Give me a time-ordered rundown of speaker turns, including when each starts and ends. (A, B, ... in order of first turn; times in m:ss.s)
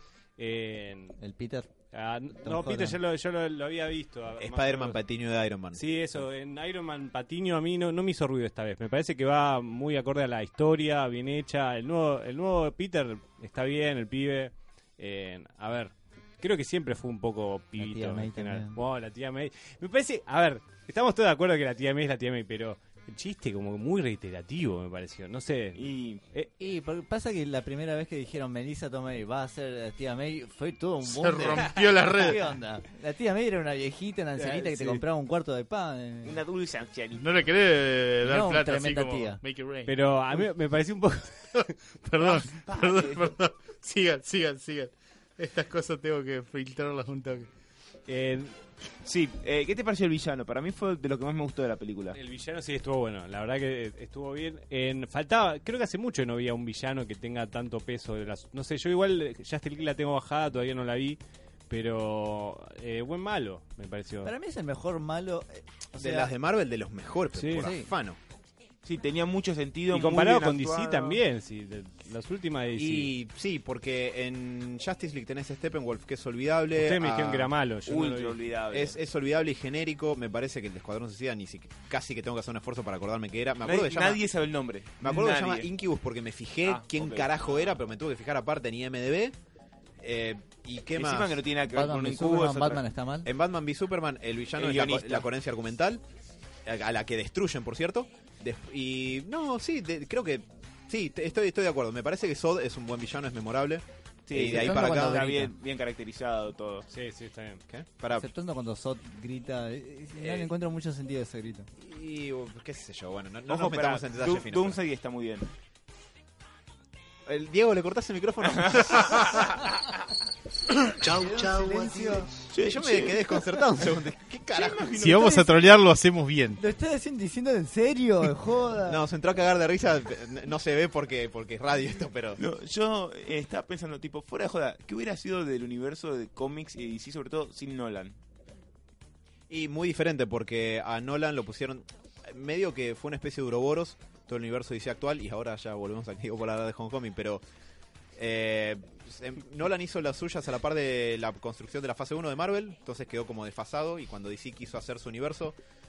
0:00.4-0:01.2 A
0:01.2-0:01.7 B
0:01.9-0:05.0 A
0:02.4-0:03.0 B
0:04.4-0:06.2 C
0:05.7-0:26.5 A
0:17.8-0:18.8 B
0:25.8-0:26.2 D
0:26.6-0:36.4 B
0:31.0-0:32.4 E
0:34.4-0:35.0 A
0:36.2-0:37.3 D
0:37.2-0:40.0 E
0:38.2-0:39.4 B
0:39.9-0:41.6 A
0:41.5-0:47.5 E
0:42.3-0:43.3 D
0:48.1-0:48.6 A
0:49.0-0:52.2 D
0:52.1-1:01.2 A
1:01.7-1:04.3 A
1:04.2-1:06.3 B
1:06.0-1:08.2 C
1:07.3-1:07.7 A
1:07.6-1:07.9 B
1:08.8-1:11.2 D
1:09.9-1:13.1 A
1:12.7-1:17.5 C
1:16.8-1:18.4 A
1:17.9-1:19.0 D
1:18.7-1:24.2 C
1:23.6-1:25.7 D
1:25.0-1:29.4 C
1:26.6-1:27.8 D
1:30.0-1:31.4 C
1:31.0-1:32.8 D
1:31.7-1:33.3 B
1:33.2-1:36.0 C
1:34.6-1:35.3 D
1:36.6-1:45.3 C
1:44.3-1:46.9 D
1:44.4-1:45.5 B
1:46.9-1:47.6 A
1:47.7-1:48.3 C
1:48.1-1:51.7 B
1:50.2-1:50.5 C
1:51.8-1:54.8 C
1:53.5-1:55.5 D
1:57.3-1:59.6 C
1:58.5-1:58.9 D
2:01.0-2:02.3 B
2:02.5-2:04.0 D
2:02.6-2:04.9 C
2:04.5-2:05.7 D
2:04.9-2:06.6 E
2:06.6-2:09.0 B
2:08.9-2:12.4 C
2:12.4-2:18.2 D
2:19.5-2:27.4 C
2:28.2-2:35.6 C